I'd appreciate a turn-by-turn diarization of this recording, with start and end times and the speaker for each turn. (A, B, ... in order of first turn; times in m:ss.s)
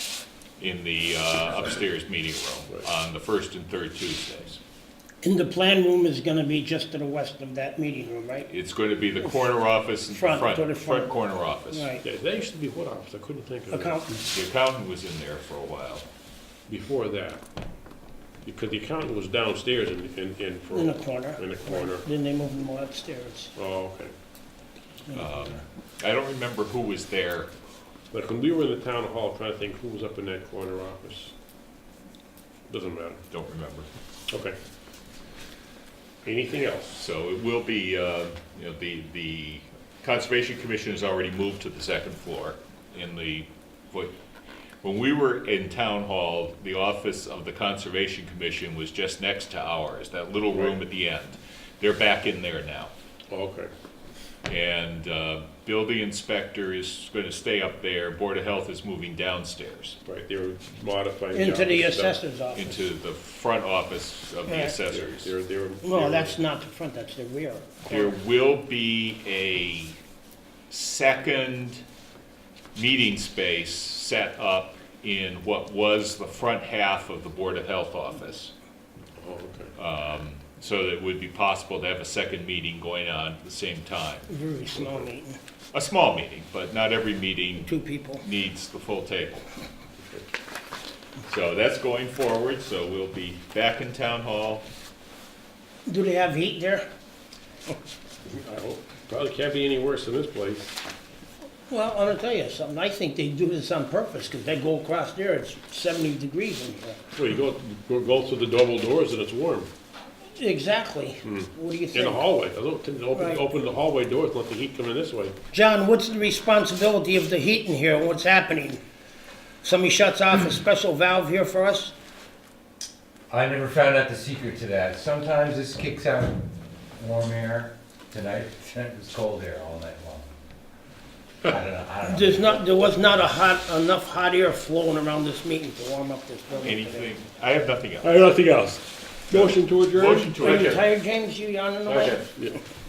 0:00.6-0:04.6 A
0:05.2-0:08.5 B
0:08.5-0:11.9 A
0:10.1-0:11.2 B
0:11.7-0:12.0 B
0:12.0-0:14.0 C
0:13.7-0:14.2 B
0:14.2-0:16.0 A
0:16.7-0:17.4 C
0:18.4-0:22.0 C
0:20.7-0:23.5 B
0:23.6-0:24.1 C
0:25.1-0:25.6 B
0:25.1-0:27.5 A
0:28.1-0:31.3 C
0:32.7-0:33.2 C
0:33.3-0:33.9 A
0:34.3-0:34.6 C
0:36.2-0:37.0 C
0:37.0-0:44.1 A
0:44.8-0:52.9 A
0:53.3-0:53.7 C
0:54.5-1:00.0 A
1:00.0-1:02.2 C
1:01.3-1:02.8 B
1:02.5-1:05.3 A
1:04.5-1:04.7 B
1:04.9-1:06.4 C
1:05.8-1:08.2 B
1:07.8-1:10.0 A
1:10.7-1:11.8 A
1:12.8-1:18.5 A
1:19.2-1:19.7 C
1:19.8-1:24.3 A
1:24.3-1:25.4 B
1:24.7-1:25.1 C
1:25.7-1:29.5 A
1:27.6-1:28.2 B
1:30.0-1:30.3 C
1:31.2-1:34.6 A
1:35.8-1:36.8 B
1:38.3-1:40.8 C
1:41.7-1:47.0 B
1:47.1-1:49.7 C
1:50.4-1:52.2 B
1:51.2-1:55.3 C
1:53.1-1:53.5 B
1:55.5-1:58.8 B
1:59.6-2:01.9 B
2:03.3-2:06.5 D
2:07.0-2:10.3 D
2:11.4-2:12.6 D
2:12.0-2:17.1 B
2:16.6-2:18.2 A
2:18.0-2:20.8 C
2:19.3-2:20.9 A
2:20.4-2:22.3 B
2:21.9-2:22.3 A
2:22.4-2:22.6 C